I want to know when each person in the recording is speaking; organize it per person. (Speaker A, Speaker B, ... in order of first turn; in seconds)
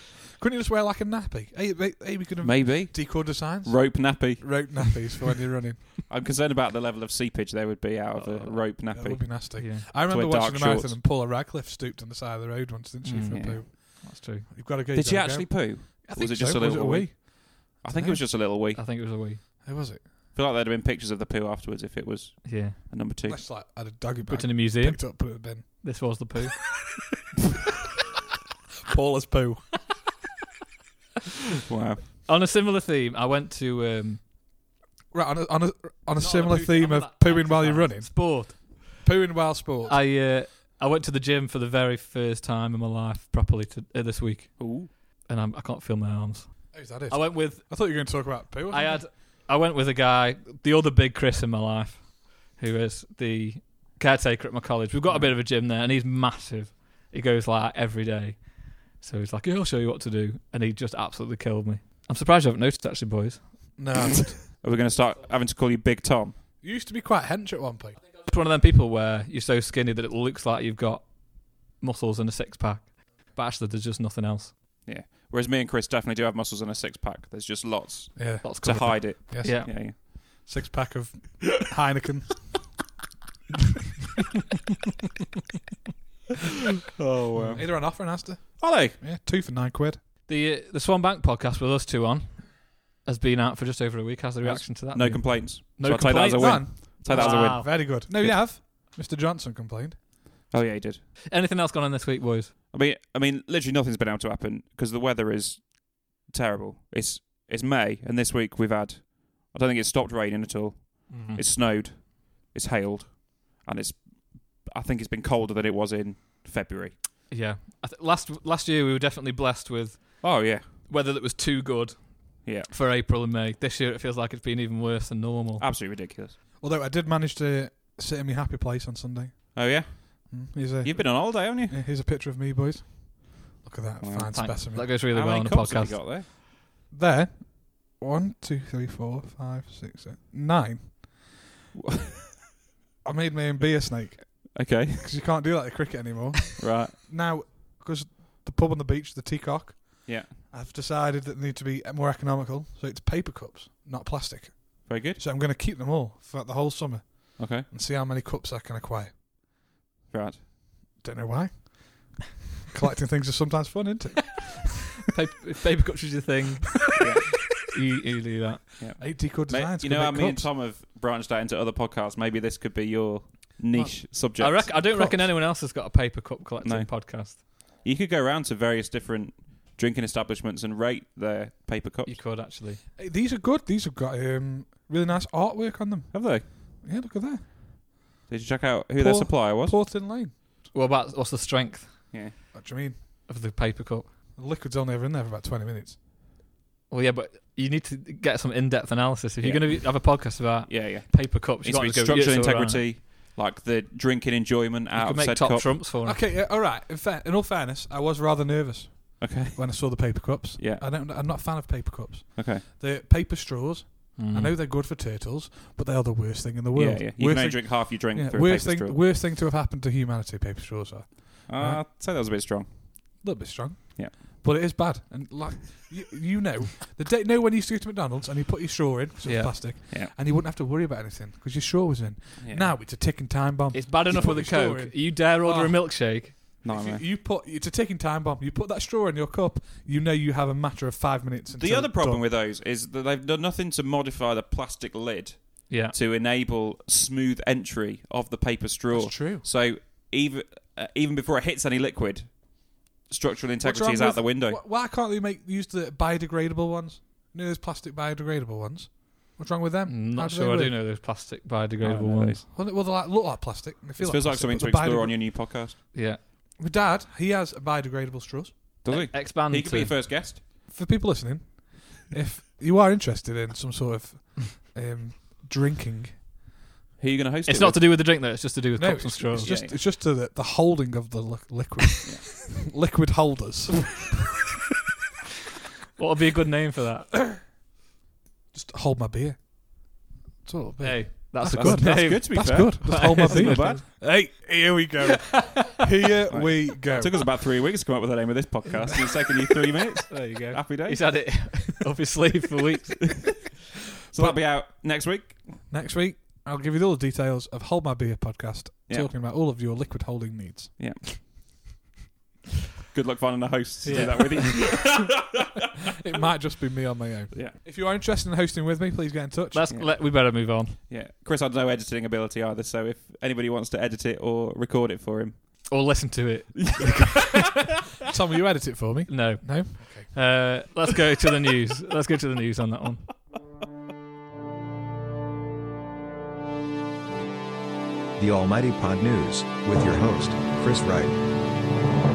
Speaker A: 0.4-5.9, 8.9-18.2, 19.6-20.1, 23.3-26.0, 28.9-30.0, 35.1-40.0, 46.7-49.1, 63.8-64.5, 66.6-68.0, 78.2-82.5, 87.5-90.0, 96.3-100.0, 126.6-134.9, 136.9-141.3, 143.0-159.2, 161.0-164.7, 169.0-170.5, 173.7-175.3, 183.0-187.5, 189.0-190.3, 192.5-193.0, 194.4-196.0, 206.0-221.8, 223.2-242.2, 248.9-249.5, 253.6-260.8, 262.5-265.2, 266.6-268.5, 270.7-276.3, 278.8-284.1, 288.5-297.2, 305.7-310.9, 316.0-319.7, 328.0-330.1
Speaker B: 2.4-5.0, 6.1-11.0, 13.3-13.6, 14.9-18.8, 20.3-23.5, 31.7-32.0, 44.6-44.9, 64.5-66.4, 74.8-80.0, 86.9-89.0, 94.4-98.4, 100.5-101.0, 102.7-117.0, 120.2-120.7, 122.5-122.7, 125.6-126.4, 129.6-131.8, 134.0-136.3, 141.8-142.1, 144.6-145.1, 146.6-146.9, 150.1-150.3, 154.9-155.2, 157.4-157.7, 160.1-160.4, 167.0-167.4, 168.8-174.8, 176.6-182.2, 186.1-186.4, 188.3-189.8, 199.4-205.8, 209.2-210.9, 212.4-212.6, 216.7-219.1, 221.5-222.7, 232.4-232.7, 236.6-237.1, 241.6-254.6, 261.8-262.5, 264.0-265.8, 268.8-270.4, 277.0-277.9, 279.3-279.8, 282.0-282.4, 291.4-293.8, 296.3-301.6, 304.1-305.6, 310.8-311.3, 312.9-315.6, 319.7-325.7, 326.6-327.5
Speaker C: 8.2-8.7, 9.6-9.8, 13.0-14.5, 18.6-19.4, 22.4-22.8, 24.3-26.7, 32.2-34.2, 36.2-39.0, 39.9-63.9, 68.1-74.5, 78.4-79.7, 90.3-97.8, 101.3-102.5, 111.1-111.4, 117.3-125.7, 134.3-136.0, 165.1-167.0, 167.7-168.7, 174.4-177.4, 182.1-182.8, 190.7-192.1, 193.3-194.1, 196.9-202.9, 204.9-206.2, 214.2-214.6, 229.2-229.6, 233.7-236.4, 245.7-245.9, 259.9-262.4, 265.9-266.2, 268.9-269.9, 277.5-279.6, 286.0-287.3, 290.8-293.9, 300.1-303.3, 313.8-314.6, 319.5-320.8, 325.7-327.5, 329.1-333.1
Speaker D: 338.2-341.2